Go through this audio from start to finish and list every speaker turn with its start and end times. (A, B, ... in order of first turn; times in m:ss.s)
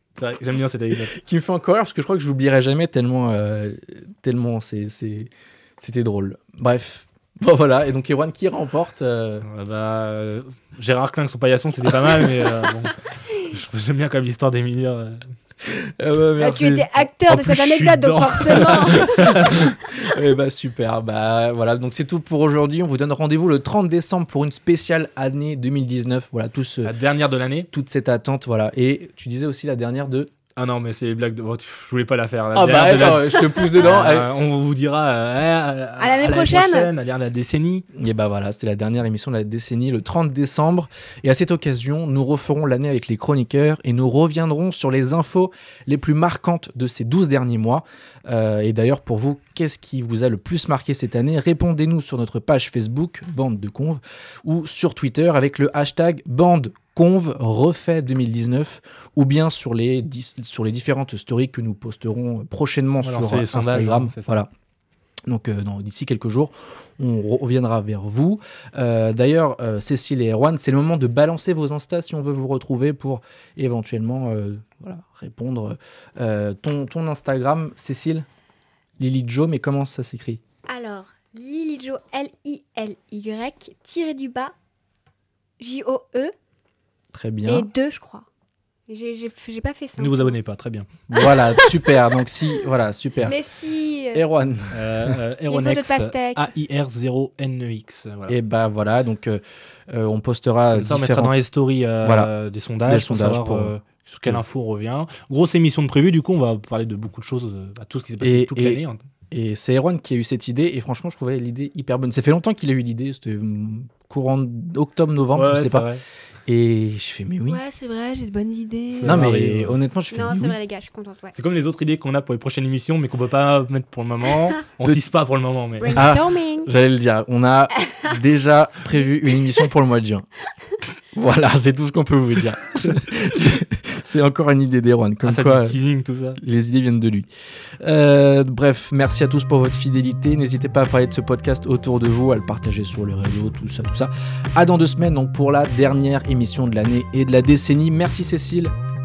0:00.2-0:01.1 A
0:01.0-0:09.5 B
0:09.4-0:15.2 A
0:15.6-0:16.9 B
0:16.4-0:19.3 C
0:17.3-0:19.7 A
0:18.6-0:27.0 B
0:26.8-0:27.7 A
0:27.7-0:30.3 B
0:30.6-0:37.8 A
0:32.5-0:34.3 B
0:36.0-0:36.9 C
0:37.9-1:04.5 B
1:03.0-1:04.4 A
1:05.2-1:18.3 B
1:19.0-1:20.4 B
1:20.7-1:24.5 C
1:25.6-1:26.3 C
1:27.1-1:27.7 B
1:27.5-1:28.3 C
1:28.9-1:30.3 C
1:30.0-1:30.9 A
1:31.1-1:33.4 B
1:33.2-1:34.2 C
1:34.1-1:35.2 B
1:34.7-1:38.3 A
1:35.5-1:36.5 C
1:38.3-1:41.4 B
1:40.7-1:49.0 A
1:42.0-1:42.3 B
1:42.8-1:43.7 B
1:48.2-1:48.8 B
1:49.3-1:55.9 B
1:55.3-1:56.0 A
1:56.5-1:57.6 B
1:57.4-1:59.3 C
1:58.9-1:59.8 A
1:59.0-2:00.6 B
2:00.1-2:01.4 C
2:01.3-2:06.0 A
2:05.8-2:06.7 C
2:05.9-2:10.3 B
2:11.1-2:15.8 B
2:15.2-2:16.4 A
2:16.3-2:17.3 B
2:17.8-2:28.7 B